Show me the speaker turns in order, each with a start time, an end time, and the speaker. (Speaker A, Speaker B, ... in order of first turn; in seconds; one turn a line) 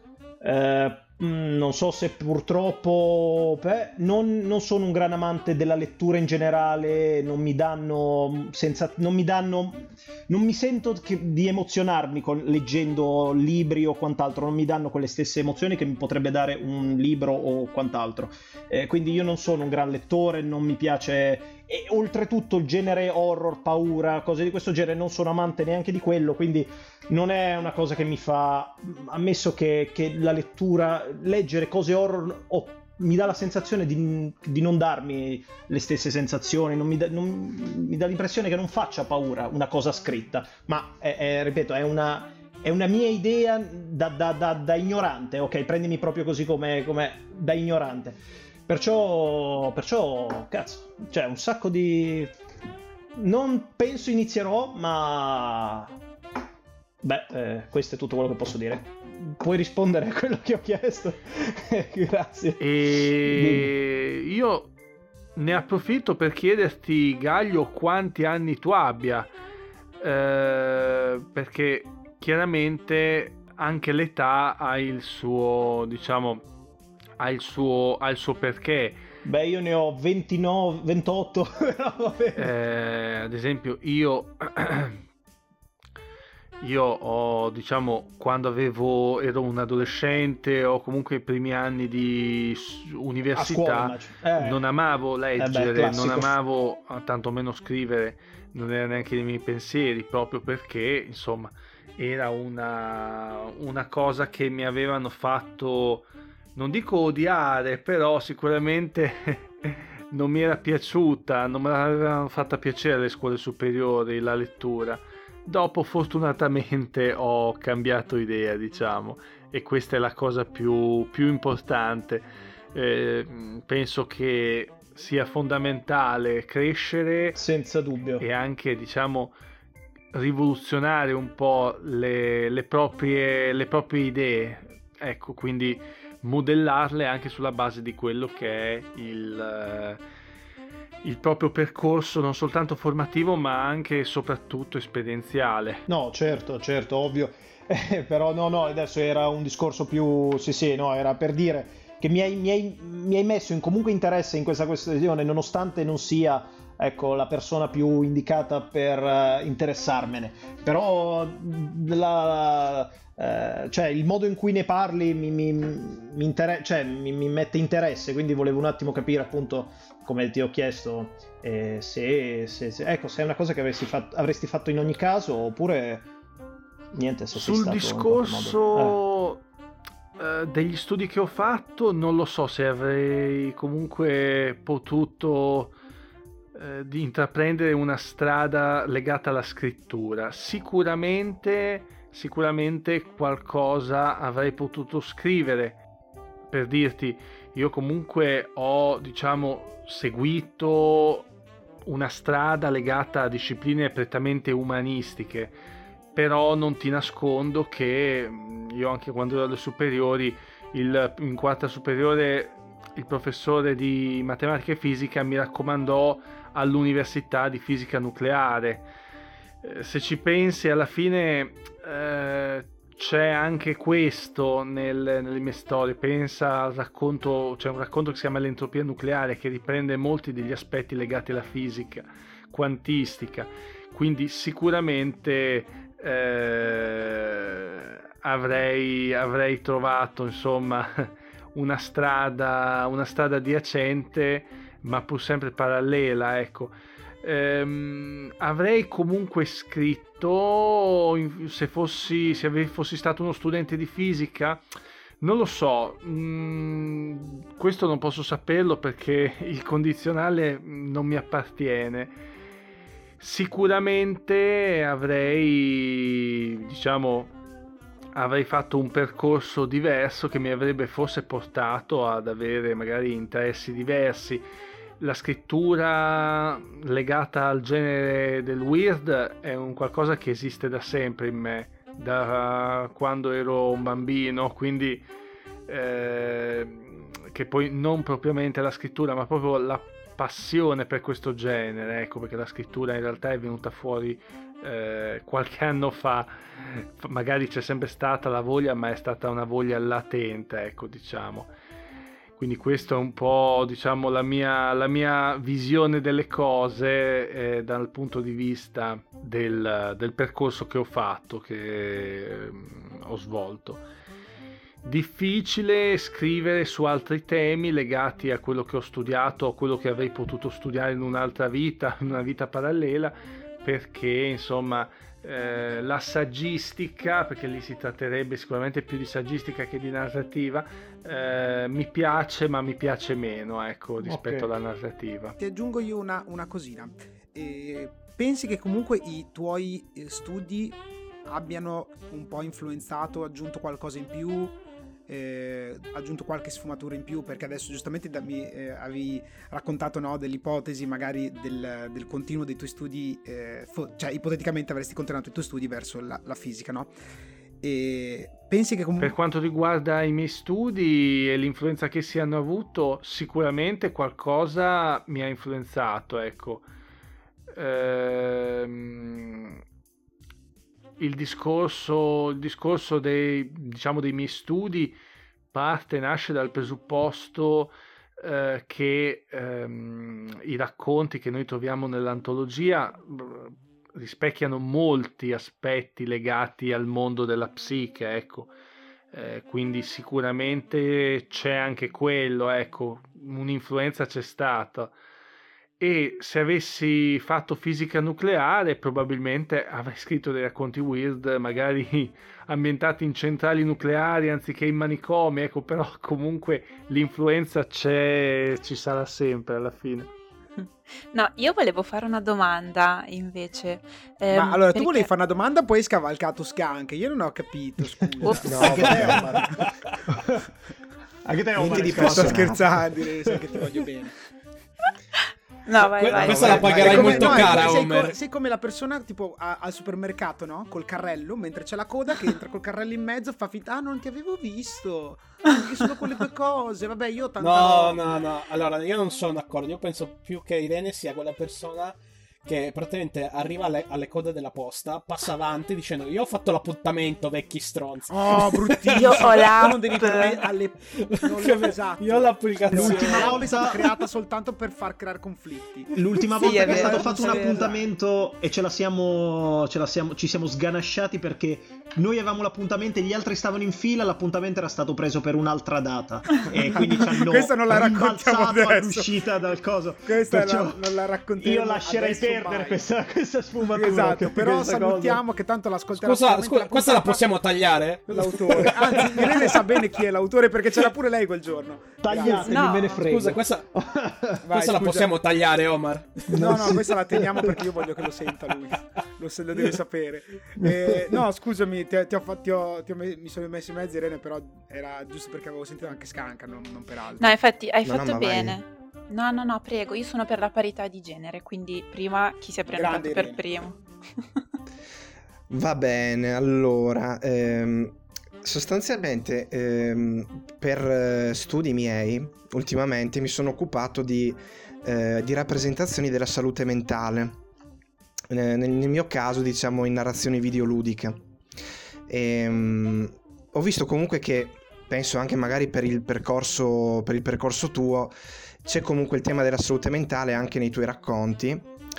Speaker A: 0.4-52.4
Speaker A: 53.1-55.9
Speaker A: 57.0-63.7
Speaker B: 62.6-64.7
Speaker B: 65.4-69.3
Speaker B: 70.0-76.5
Speaker B: 77.2-79.0
Speaker A: 79.2-82.5
Speaker B: 82.4-85.0
Speaker B: 86.6-127.4
Speaker A: 93.3-94.6
Speaker A: 95.4-96.3
Speaker A: 127.3-128.2
Speaker B: 128.2-129.4
Speaker B: 130.1-140.0
Speaker B: 141.0-145.8
Speaker A: 145.9-176.1
Speaker A: 176.9-179.0
Speaker B: 177.3-179.4
Speaker B: 180.2-185.7
Speaker B: 186.6-195.8
Speaker B: 196.5-201.3
Speaker B: 201.9-205.6
Speaker B: 206.2-218.9
Speaker B: 219.6-254.6
Speaker B: 255.2-262.1
Speaker B: 263.2-267.4
Speaker B: 268.1-274.4
Speaker B: 275.0-285.1
Speaker B: 285.7-301.5
Speaker B: 302.4-313.8
Speaker B: 314.8-335.4
Speaker A: 334.0-334.5
Speaker C: 335.4-344.6
Speaker C: 345.1-356.9
Speaker C: 357.6-359.1
Speaker B: 359.0-366.7
Speaker B: 367.5-369.6
Speaker B: 371.0-375.0
Speaker B: 375.5-388.5
Speaker B: 389.1-394.9
Speaker B: 395.8-410.1
Speaker D: 410.6-415.1
Speaker C: 414.3-419.5
Speaker D: 418.2-419.1
Speaker E: 418.4-419.4
Speaker A: 418.6-420.5
Speaker F: 418.6-420.0
Speaker A: 421.2-423.5
Speaker C: 421.6-424.1
Speaker E: 421.8-422.5
Speaker D: 425.7-427.4
Speaker F: 426.0-428.1
Speaker E: 426.1-427.8
Speaker C: 426.3-438.0
Speaker F: 437.4-450.2
Speaker C: 448.1-457.8
Speaker D: 448.9-450.4
Speaker F: 450.9-453.9
Speaker A: 452.7-453.8
Speaker A: 455.9-475.2
Speaker D: 456.3-457.7
Speaker F: 456.6-457.2
Speaker C: 466.6-469.1
Speaker C: 470.1-472.9
Speaker C: 473.7-477.2
Speaker F: 475.9-478.9
Speaker C: 478.1-482.5
Speaker A: 478.5-479.7
Speaker A: 482.0-484.5
Speaker D: 482.2-483.1
Speaker F: 482.8-483.7
Speaker C: 484.4-485.1
Speaker F: 484.6-486.4
Speaker A: 486.3-487.8
Speaker C: 486.3-497.4
Speaker A: 490.6-491.2
Speaker D: 497.2-504.2
Speaker E: 497.9-498.6
Speaker C: 502.7-503.4
Speaker E: 505.5-517.4
Speaker E: 518.3-521.3
Speaker E: 522.1-528.1
Speaker E: 528.6-531.7